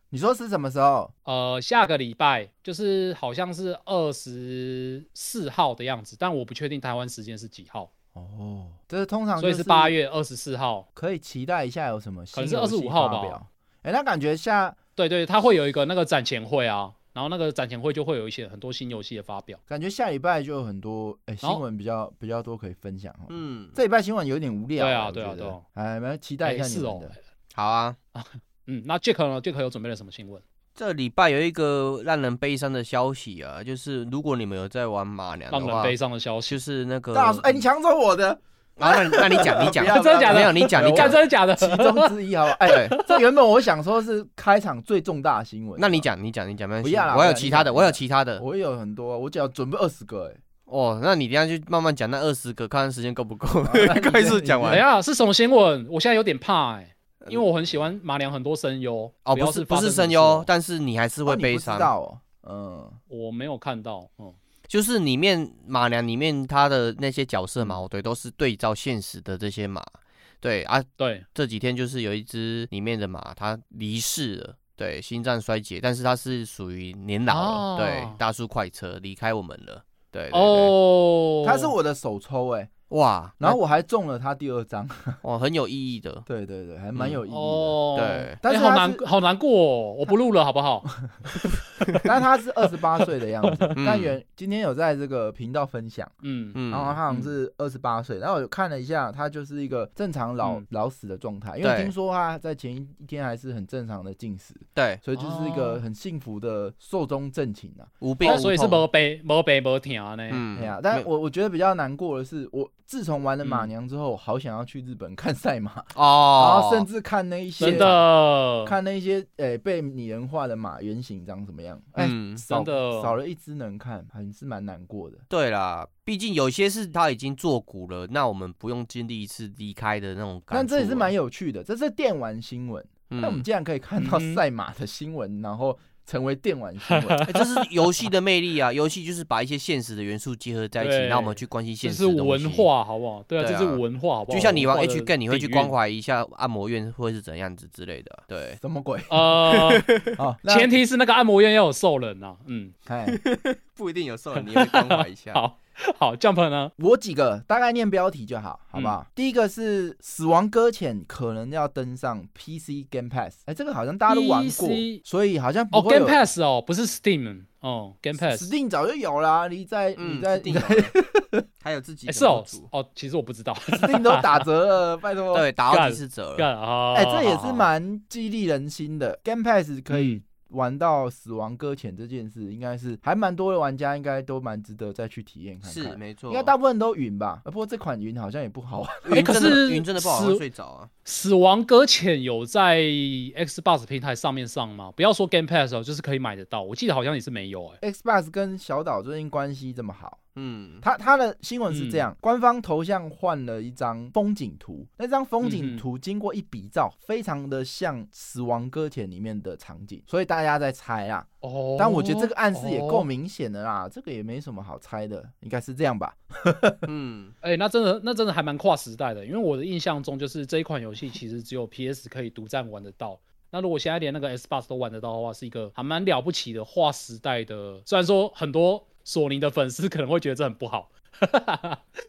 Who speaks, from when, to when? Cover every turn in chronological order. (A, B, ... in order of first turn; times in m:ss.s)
0:00.1-0:01.1 A
0:01.3-0:07.9 B
0:08.2-0:10.0 A
0:09.4-0:10.9 B
0:11.0-0:14.8 A
0:12.4-0:13.4 B
0:15.0-0:19.6 B
0:19.7-0:27.1 A
0:23.3-0:23.8 C
0:24.8-0:25.6 B
0:26.4-0:27.2 B
0:27.5-0:28.0 C
0:28.2-0:30.4 B
0:30.8-0:36.0 C
0:35.5-0:36.6 B
0:36.5-0:37.6 C
0:37.1-0:46.1 A
0:38.8-0:41.2 C
0:39.7-0:42.1 B
0:42.7-0:43.2 B
0:42.7-0:43.0 C
0:45.8-0:48.4 C
0:46.8-0:50.4 A
0:50.7-0:54.8 C
0:53.6-0:54.8 A
0:54.7-1:00.5 B
0:57.2-0:57.8 C
0:59.3-1:01.9 C
1:01.3-1:03.0 A
1:03.1-1:04.4 B
1:04.7-1:09.9 C
1:10.4-1:20.8 C
1:11.0-1:11.3 B
1:17.3-1:18.2 B
1:20.3-1:21.7 B
1:21.4-1:22.7 A
1:22.9-1:23.6 C
1:23.4-1:25.2 A
1:25.2-1:26.3 C
1:26.3-1:27.8 A
1:27.0-1:27.2 C
1:27.3-1:30.9 B
1:28.0-1:28.4 C
1:28.4-1:29.0 A
1:32.0-1:36.1 A
1:33.8-1:34.2 C
1:36.2-1:36.6 B
1:36.6-1:37.0 C
1:36.7-1:48.5 A
1:41.6-1:41.9 C
1:44.8-1:45.0 C
1:45.2-1:45.8 B
1:48.0-1:48.8 C
1:48.2-1:50.4 B
1:50.3-1:51.1 C
1:50.6-1:58.0 A
1:56.0-1:56.9 C
1:57.6-1:58.8 B
1:57.7-1:57.9 C
1:58.6-2:05.2 A
2:02.0-2:02.4 C
2:02.5-2:03.2 B
2:05.3-2:11.1 C
2:10.5-2:17.2 A
2:13.1-2:13.4 C
2:14.0-2:14.4 B
2:16.9-2:17.7 B
2:17.3-2:22.7 C
2:20.8-2:25.7 B
2:23.4-2:28.6 C
2:28.6-2:29.6 A
2:29.1-2:29.9 B
2:29.6-2:30.1 C
2:30.2-2:30.7 A
2:30.5-2:32.7 B
2:32.9-2:33.2 A
2:33.1-2:35.4 C
2:34.6-2:36.7 B
2:36.8-2:46.2 A
2:44.1-2:45.0 B
2:45.7-2:48.5 B
2:48.2-2:51.4 A
2:50.0-2:50.9 C
2:51.6-2:52.7 C
2:52.1-2:54.4 B
2:53.7-2:55.5 A
2:55.3-2:56.5 C
2:55.7-2:57.6 B
2:56.9-3:09.4 A
2:59.9-3:00.2 B
3:05.6-3:06.5 C
3:09.1-3:10.9 C
3:09.1-3:10.4 B
3:11.0-3:17.8 B
3:17.8-3:20.2 A
3:20.4-3:20.8 C
3:20.8-3:36.9 A
3:21.7-3:22.0 B
3:25.4-3:25.8 B
3:31.4-3:33.1 B
3:36.9-3:37.3 C
3:37.4-3:51.8 B